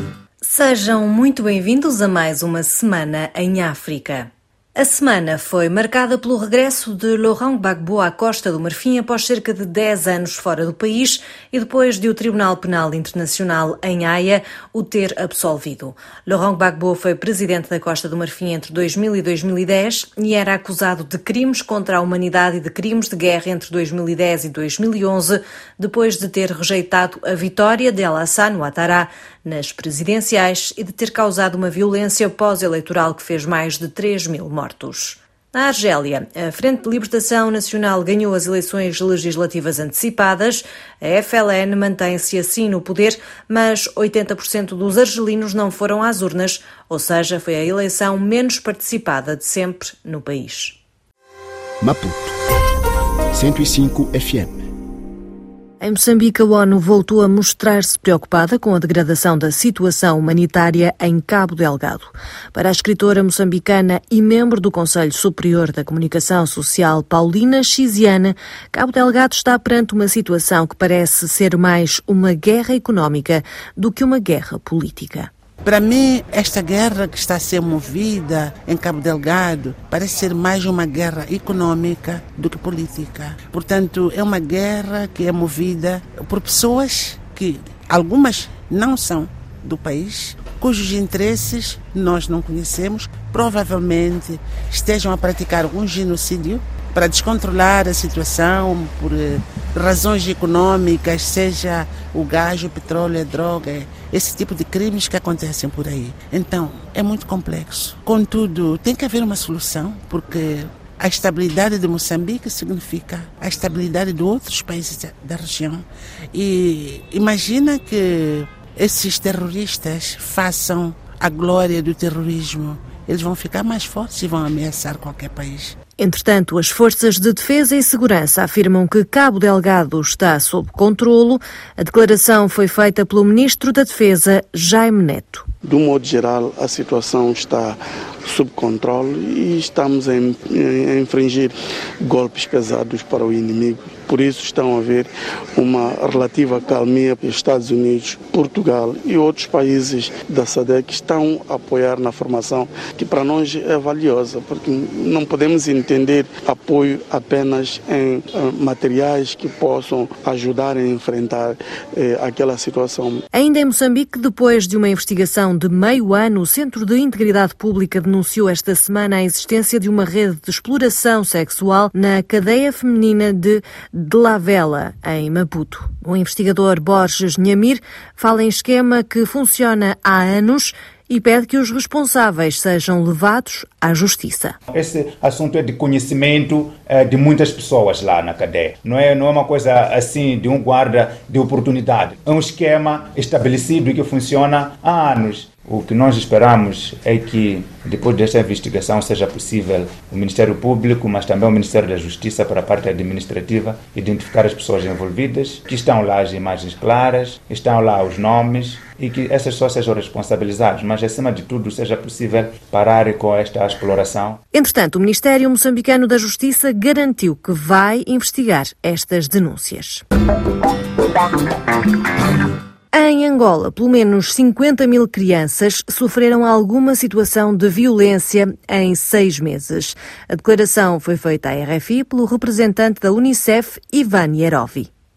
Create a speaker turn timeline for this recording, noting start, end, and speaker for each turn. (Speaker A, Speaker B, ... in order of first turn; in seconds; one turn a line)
Speaker A: 0.4-50.8
Speaker B: 51.8-52.4
Speaker B: 53.3-54.7
Speaker A: 55.8-75.3
Speaker C: 75.6-125.8
Speaker A: 126.0-135.4
Speaker D: 135.6-163.2
Speaker A: 163.3-184.6
Speaker E: 184.7-214.4
Speaker A: 214.5-220.0
Speaker A: 222.9-234.9